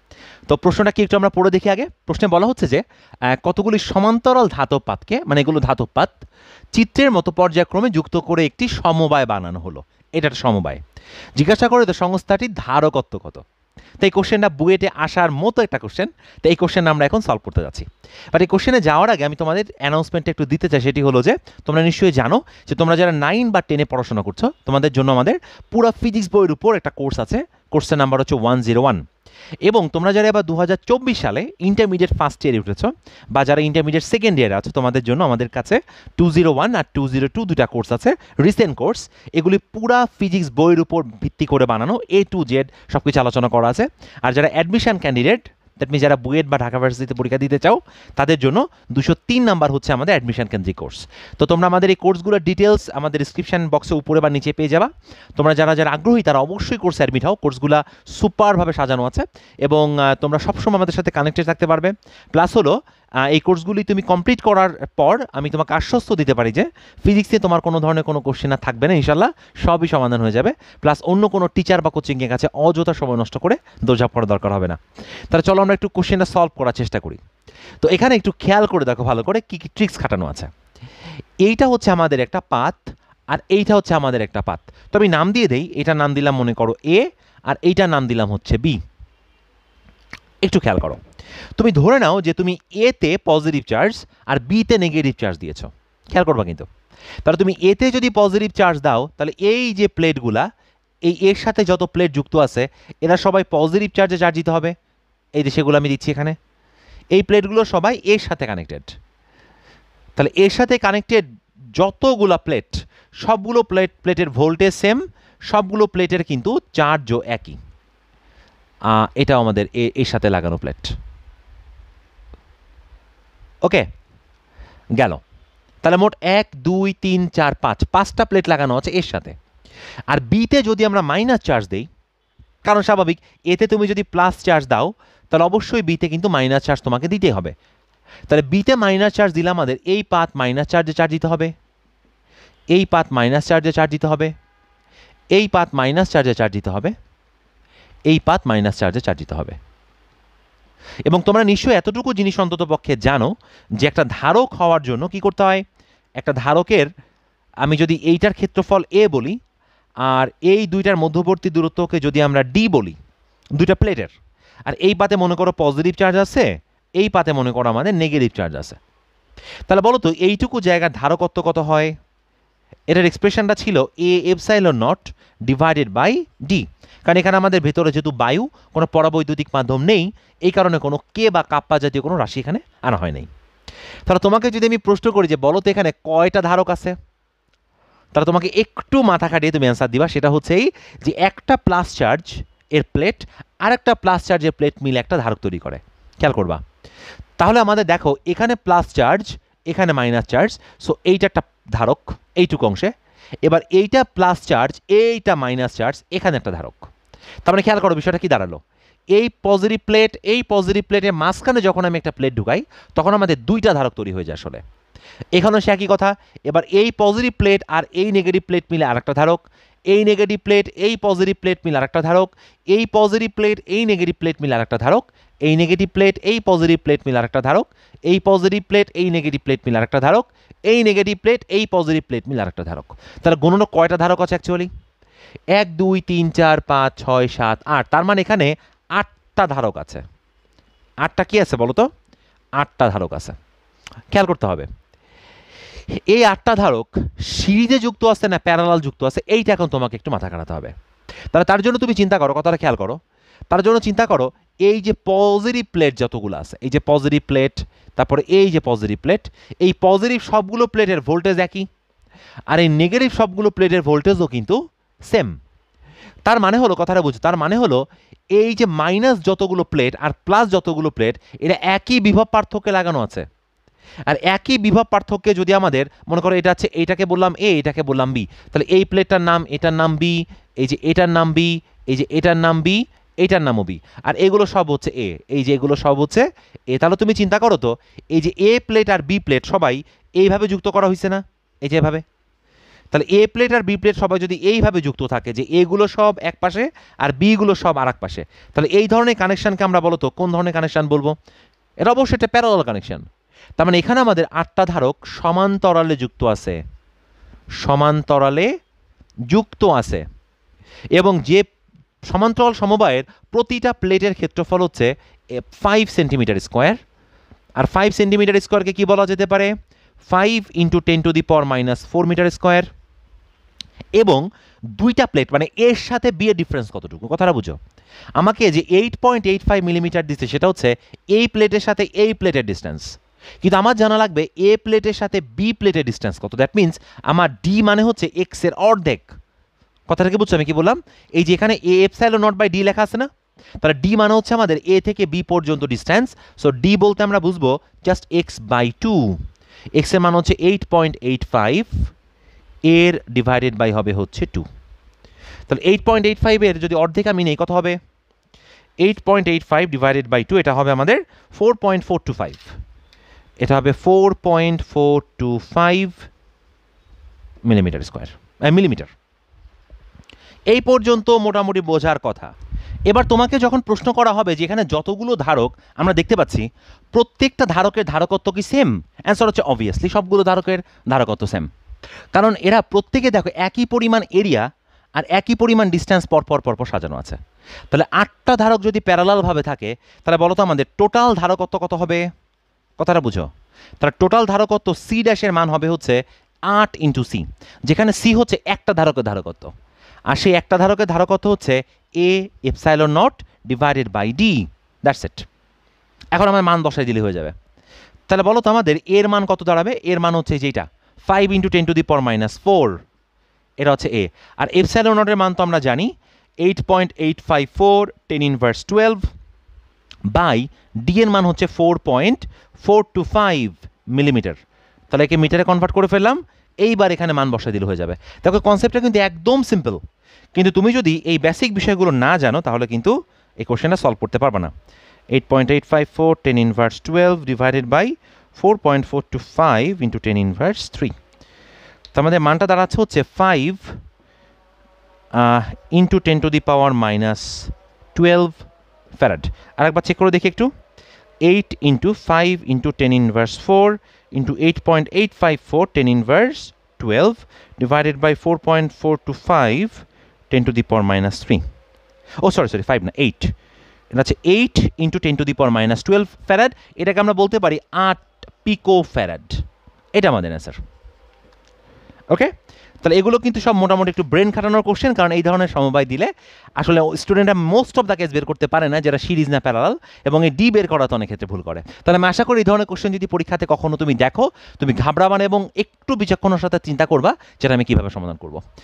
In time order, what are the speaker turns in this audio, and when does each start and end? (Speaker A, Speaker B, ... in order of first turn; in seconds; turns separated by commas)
Speaker A: 0.5-6.2, Speaker A: 6.8-10.8, Speaker A: 11.4-13.4, Speaker A: 14.0-29.0, Speaker A: 29.7-62.7, Speaker A: 63.3-74.8, Speaker A: 75.3-77.2, Speaker A: 77.8-80.5, Speaker A: 81.5-88.8, Speaker A: 90.4-91.0, Speaker A: 91.6-96.7, Speaker A: 97.2-100.5, Speaker A: 101.1-104.7, Speaker A: 105.4-106.3, Speaker A: 107.1-108.9, Speaker A: 110.2-111.2, Speaker A: 111.8-115.0, Speaker A: 115.5-117.6, Speaker A: 118.9-120.9, Speaker A: 125.8-129.3, Speaker A: 130.1-131.9, Speaker A: 132.7-137.5, Speaker A: 138.3-141.5, Speaker A: 142.7-144.3, Speaker A: 145.3-146.9, Speaker A: 148.1-149.6, Speaker A: 151.1-155.6, Speaker A: 156.2-156.9, Speaker A: 157.6-159.4, Speaker A: 160.1-163.0, Speaker A: 163.6-164.1, Speaker A: 164.7-166.5, Speaker A: 167.0-168.8, Speaker A: 169.7-171.9, Speaker A: 172.9-183.3, Speaker A: 184.1-186.9, Speaker A: 188.2-196.6, Speaker A: 197.4-202.9, Speaker A: 203.4-206.9, Speaker A: 207.4-208.6, Speaker A: 209.1-214.6, Speaker A: 215.4-234.7, Speaker A: 235.5-240.0, Speaker A: 241.0-241.9, Speaker A: 242.6-243.3, Speaker A: 244.1-244.7, Speaker A: 246.0-250.7, Speaker A: 251.3-253.0, Speaker A: 253.5-261.7, Speaker A: 262.5-264.6, Speaker A: 266.3-267.8, Speaker A: 268.4-273.2, Speaker A: 274.1-292.0, Speaker A: 292.9-301.1, Speaker A: 301.8-303.1, Speaker A: 303.6-306.6, Speaker A: 307.6-308.5, Speaker A: 309.3-310.0, Speaker A: 311.0-311.4, Speaker A: 312.1-316.8, Speaker A: 317.6-319.5, Speaker A: 320.1-322.7, Speaker A: 324.0-327.6, Speaker A: 328.2-332.9, Speaker A: 333.4-339.1, Speaker A: 339.9-343.1, Speaker A: 343.6-349.2, Speaker A: 349.8-351.7, Speaker A: 352.7-354.4, Speaker A: 355.5-357.8, Speaker A: 358.8-362.5, Speaker A: 363.4-366.0, Speaker A: 367.4-368.9, Speaker A: 370.5-372.3, Speaker A: 372.9-381.5, Speaker A: 382.1-384.5, Speaker A: 385.0-387.2, Speaker A: 387.7-392.0, Speaker A: 392.8-393.3, Speaker A: 393.8-399.5, Speaker A: 400.1-405.2, Speaker A: 406.1-407.3, Speaker A: 408.1-412.8, Speaker A: 413.6-415.9, Speaker A: 416.4-419.1, Speaker A: 420.1-424.4, Speaker A: 424.9-429.8, Speaker A: 430.4-434.5, Speaker A: 435.1-440.9, Speaker A: 441.9-443.8, Speaker A: 445.1-450.5, Speaker A: 451.2-461.4, Speaker A: 462.2-463.3, Speaker A: 463.9-469.4, Speaker A: 469.9-470.6, Speaker A: 472.8-488.4